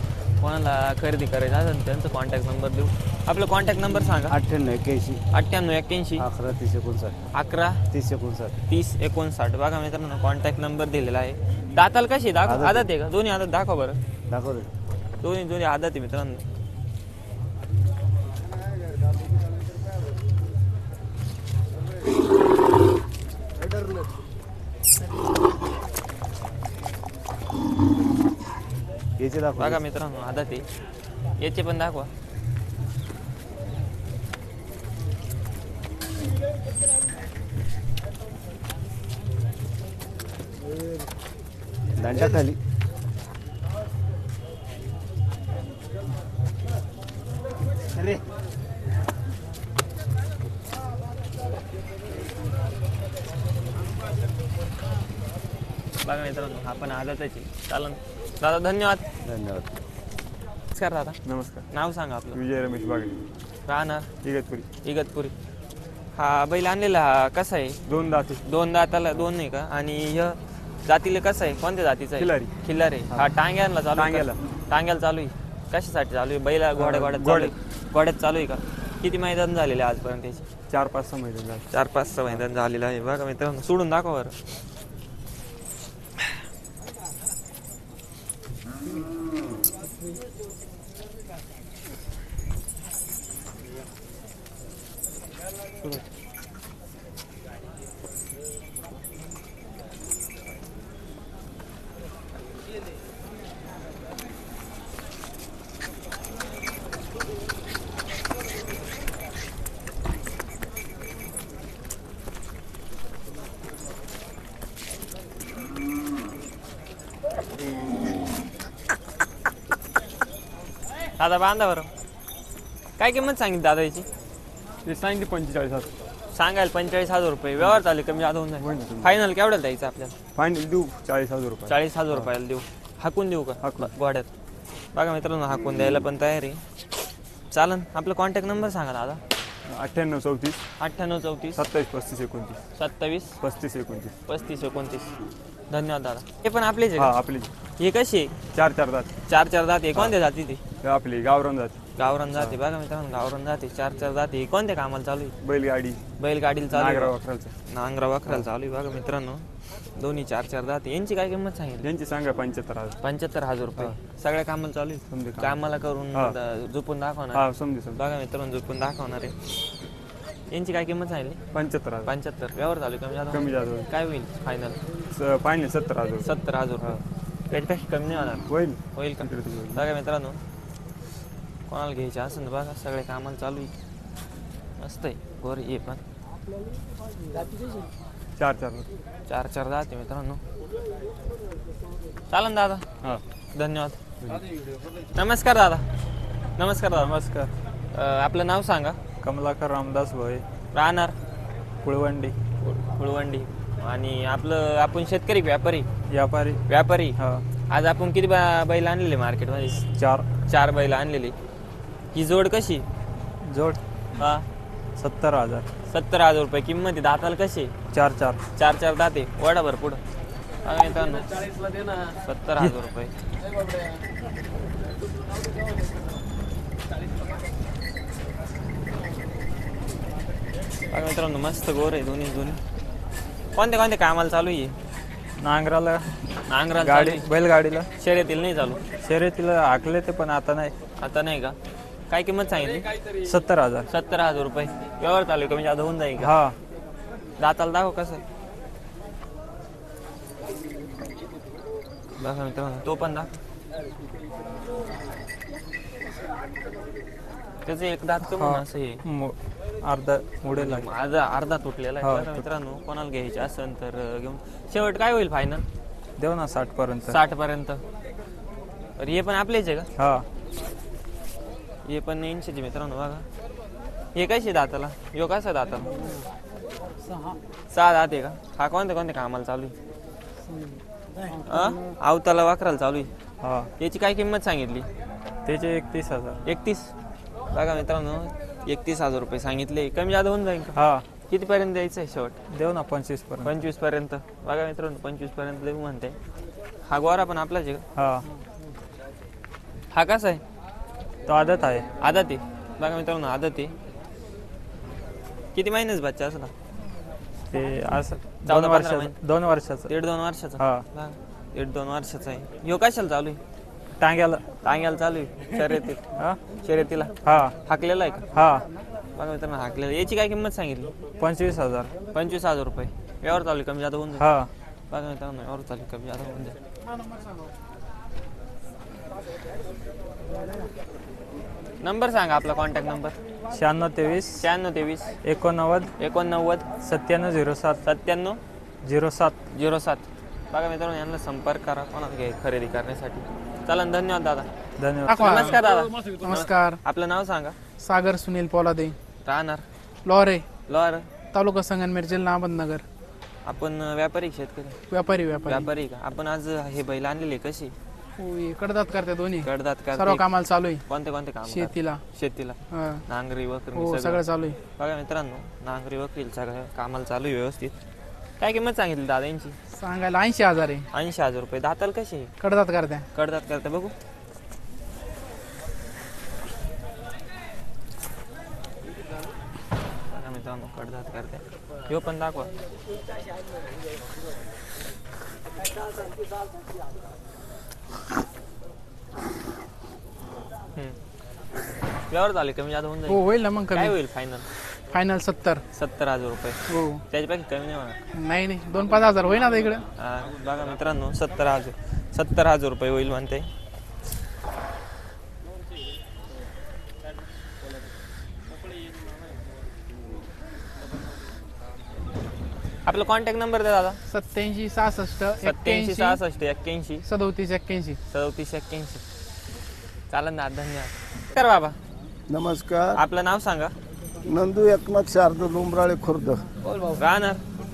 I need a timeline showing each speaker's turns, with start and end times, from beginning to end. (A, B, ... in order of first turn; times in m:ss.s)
0:00.4-0:04.4 A
0:04.2-0:05.2 B
0:05.3-0:06.3 A
0:06.2-0:07.2 B
0:07.3-0:07.8 A
0:07.9-0:08.6 B
0:08.7-0:14.0 A
0:12.4-0:12.9 B
0:14.3-0:14.7 B
0:15.2-0:16.4 A
0:29.2-0:29.8 B
0:29.6-0:30.6 A
0:31.4-0:32.1 A
0:42.0-0:42.6 B
0:56.0-0:59.0 A
0:59.2-0:59.7 B
1:00.7-1:01.2 A
1:01.2-1:01.7 C
1:01.7-1:02.4 A
1:02.3-1:03.2 C
1:03.7-1:04.1 A
1:04.2-1:04.7 C
1:04.8-1:05.3 A
1:06.2-1:07.8 A
1:07.9-1:08.4 C
1:08.4-1:20.4 A
1:12.2-1:12.5 C
1:14.0-1:14.4 C
1:16.8-1:17.5 C
1:20.7-1:21.7 C
1:21.7-1:24.3 A
2:01.2-2:01.9 A
2:03.0-2:04.1 A
2:04.8-2:05.9 C
2:06.3-2:10.2 A
2:08.6-2:09.1 C
2:10.4-2:12.3 C
2:11.7-2:14.3 A
2:13.6-2:13.9 C
2:14.9-2:16.6 A
2:17.5-2:19.2 A
2:19.7-2:20.6 C
2:20.8-2:21.6 A
2:21.6-2:22.6 C
2:22.8-2:23.4 A
2:23.4-2:24.1 C
2:24.3-2:25.1 A
2:25.7-2:27.2 A
2:27.0-2:27.5 C
2:27.8-2:28.3 A
2:28.5-2:29.1 C
2:29.3-2:30.6 A
2:30.8-2:31.8 C
2:32.0-2:35.4 A
2:35.4-2:36.0 C
2:36.2-2:37.2 A
2:36.7-2:37.5 C
2:37.7-2:39.5 A
2:40.0-2:41.8 A
2:41.8-2:43.0 C
2:43.0-2:49.4 A
2:45.1-2:45.6 C
2:47.3-2:48.0 C
2:50.5-2:51.4 A
2:51.5-2:52.1 C
2:52.1-2:54.8 A
2:53.3-2:53.9 C
2:55.1-2:57.0 C
2:56.2-2:57.0 A
2:57.5-3:00.4 A
2:58.5-2:59.8 C
3:01.7-3:03.7 A
3:04.8-3:06.0 A
3:08.4-3:08.9 C
3:09.3-3:10.4 A
3:12.3-3:12.8 A
3:13.6-3:14.0 A
3:15.1-3:15.8 A
3:16.6-3:17.1 A
3:17.0-3:17.5 C
3:17.9-3:19.0 A
3:19.2-3:20.4 C
3:20.7-3:21.2 A
3:21.8-3:22.4 C
3:22.6-3:25.9 A
3:26.1-3:26.6 C
3:26.7-3:27.2 A
3:27.2-3:27.4 C
3:27.7-3:29.8 A
3:29.9-3:30.3 C
3:30.5-3:31.4 A
3:32.1-3:32.8 A
3:33.4-3:33.8 C
3:34.2-3:34.4 A
3:35.0-3:35.7 C
3:35.9-3:37.8 A
3:37.9-3:38.4 C
3:38.6-3:40.0 A
3:40.6-3:41.3 A
3:42.2-3:43.1 A
3:50.9-3:52.6 A
3:53.6-3:54.7 A
3:55.4-3:56.0 C
3:56.5-3:57.3 A
3:56.8-3:57.9 C
3:58.0-3:58.8 A
3:59.0-4:00.7 C
4:01.0-4:01.6 A
4:02.1-4:02.9 A
4:03.2-4:03.9 C
4:03.9-4:06.3 A
4:06.2-4:06.6 C
4:07.4-4:08.2 A
4:12.2-4:13.3 A
4:17.7-4:19.0 A
4:18.3-4:20.9 C
4:20.6-4:25.6 A
4:22.0-4:22.4 C
4:26.2-4:27.2 C
4:27.1-4:27.8 A
4:29.0-4:29.9 A
4:30.0-4:30.2 C
4:31.9-4:33.2 A
4:34.2-4:35.9 A
4:37.7-4:39.8 A
4:41.5-4:43.1 A
4:43.4-4:43.7 C
4:43.8-4:44.9 A
4:45.4-4:46.4 C
4:46.4-4:46.9 A
4:47.5-4:50.8 A
4:50.8-4:51.0 C
4:51.3-4:52.4 A
4:52.5-4:53.6 C
4:53.4-4:56.2 A
4:56.8-4:57.8 A
4:58.0-4:58.2 C
4:59.9-5:00.4 A
5:01.3-5:01.9 C
5:02.0-5:03.7 A
5:05.6-5:06.5 A
5:07.5-5:09.9 C
5:08.5-5:09.2 A
5:09.9-5:13.4 A
5:10.6-5:10.8 C
5:14.0-5:14.4 C
5:14.6-5:16.0 A
5:16.6-5:18.2 A
5:17.2-5:17.6 C
5:18.3-5:18.7 C
5:19.2-5:20.9 A
5:21.2-5:21.9 C
5:22.1-5:24.3 A
5:24.2-5:24.5 C
5:24.9-5:26.6 A
5:31.8-5:33.2 A
5:33.5-5:34.4 C
5:34.4-5:35.2 A
5:35.2-5:35.9 C
5:36.0-5:36.7 A
5:36.8-5:37.8 C
5:37.8-5:38.4 A
5:38.8-5:39.4 C
5:39.5-5:44.5 A
5:44.8-5:45.4 C
5:45.1-5:45.6 D
5:45.2-5:47.6 A
5:46.1-5:46.8 D
5:47.8-5:49.0 D
5:49.2-5:49.6 A
5:50.1-5:50.4 D
5:50.7-5:51.1 A
5:51.3-5:52.8 D
5:53.5-5:54.8 A
5:54.9-5:55.7 D
5:55.5-5:57.7 A
5:58.2-6:00.8 D
5:59.4-6:00.2 A
6:00.9-6:04.2 A
6:01.5-6:02.0 D
6:02.7-6:03.0 D
6:03.8-6:04.6 D
6:04.8-6:07.8 A
6:08.4-6:09.6 A
6:09.7-6:10.9 D
6:10.9-6:12.3 A
6:12.4-6:13.1 D
6:13.1-6:13.9 A
6:20.1-6:22.5 A
6:32.1-6:34.4 A
6:33.1-6:34.0 D
6:34.9-6:35.6 D
6:35.7-6:38.0 A
6:36.7-6:37.0 D
6:38.2-6:39.9 D
6:40.0-6:43.5 A
6:52.9-6:54.0 A
6:54.1-6:56.2 D
6:55.4-6:57.0 A
6:57.1-6:58.0 D
6:58.1-6:59.0 A
7:00.1-7:01.8 A
7:02.3-7:03.0 E
7:03.0-7:03.7 A
7:04.2-7:06.4 E
7:07.0-7:07.4 A